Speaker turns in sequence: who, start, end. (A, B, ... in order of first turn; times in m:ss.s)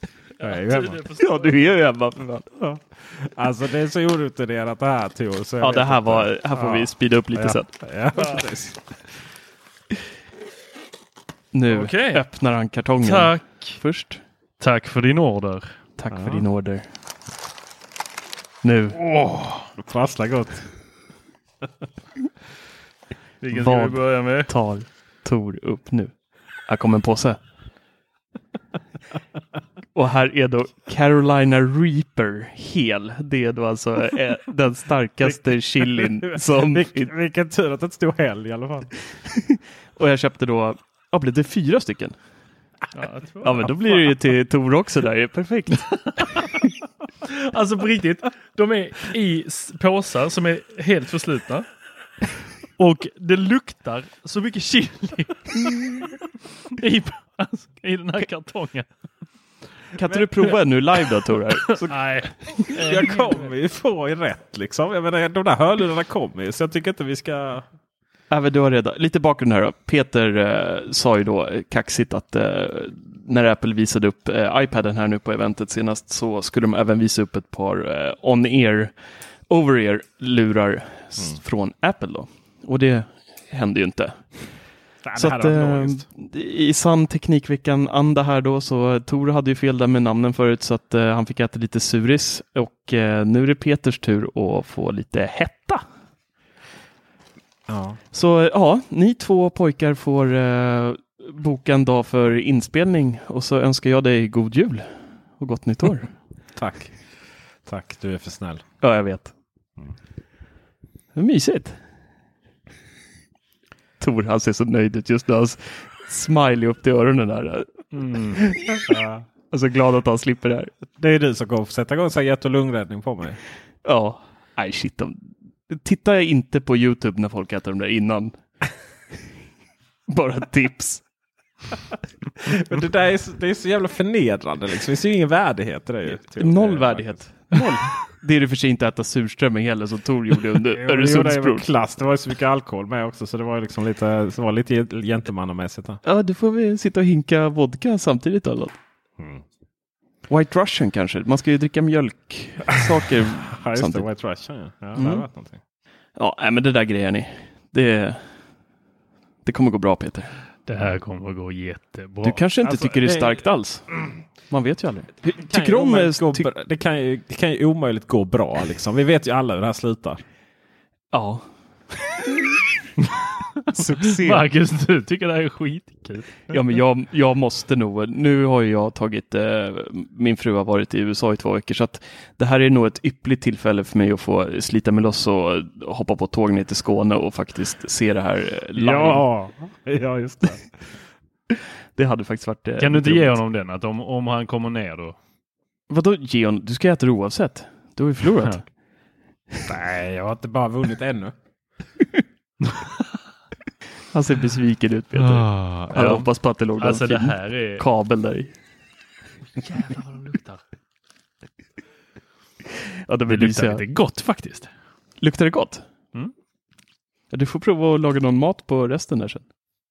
0:00.4-0:01.7 A
0:00.4-0:01.0 B
0:01.2-0:02.5 C
0:02.6-0:08.8 B
0:05.6-0:07.7 C
0:11.5-0:14.2 C
0:11.7-0:12.2 A
0:13.0-0:13.8 A
0:14.6-0:15.8 A
0:16.0-0:16.8 C
0:16.1-0:16.4 B
0:18.6-0:19.0 C
0:19.2-0:20.7 B
0:23.4-0:24.5 A
0:23.5-0:27.4 C
0:29.9-0:37.1 C
0:35.9-0:38.9 B
0:40.0-0:42.2 C
0:42.9-0:44.0 A
0:43.4-0:45.9 C
0:45.9-0:46.6 A
0:47.2-0:51.7 A
0:52.8-0:56.1 A
0:56.7-0:58.9 A
1:00.0-1:02.5 C
1:01.9-1:03.5 A
1:02.8-1:07.6 B
1:08.3-1:24.3 C
1:25.0-1:26.0 B
1:25.2-1:35.8 C
1:37.7-1:38.0 B
1:38.1-1:46.1 C
1:46.5-1:47.0 B
1:47.6-1:48.6 B
1:48.8-1:49.3 C
1:51.1-1:51.8 C
1:54.0-1:58.7 C
1:58.9-1:59.2 B
1:59.5-2:00.7 C
2:01.0-2:03.4 B
2:03.8-2:08.4 C
2:10.1-2:11.0 C
2:12.4-2:17.6 B
2:16.1-2:21.7 C
2:20.7-2:26.0 B
2:26.0-2:28.8 C
2:30.3-2:34.1 C
2:33.5-2:35.6 B
2:35.0-2:35.2 C
2:36.2-2:38.3 C
2:39.4-2:40.3 C
2:40.6-2:42.4 A
2:42.2-2:43.9 C
2:42.7-2:43.4 B
2:44.5-2:46.5 C
2:45.3-2:50.2 B
2:51.1-2:51.5 C
2:53.7-2:54.4 C
2:54.2-2:56.5 A
2:56.5-3:09.2 C
3:08.7-3:10.7 B
3:11.9-3:13.4 C
3:12.8-3:15.2 A
3:15.9-3:18.7 C
3:19.7-3:21.3 B
3:24.1-3:28.5 C
3:25.1-3:27.8 A
3:29.6-3:30.6 A
3:33.1-3:33.8 C
3:33.3-3:34.7 A
3:35.2-3:35.8 C
3:37.3-3:39.4 C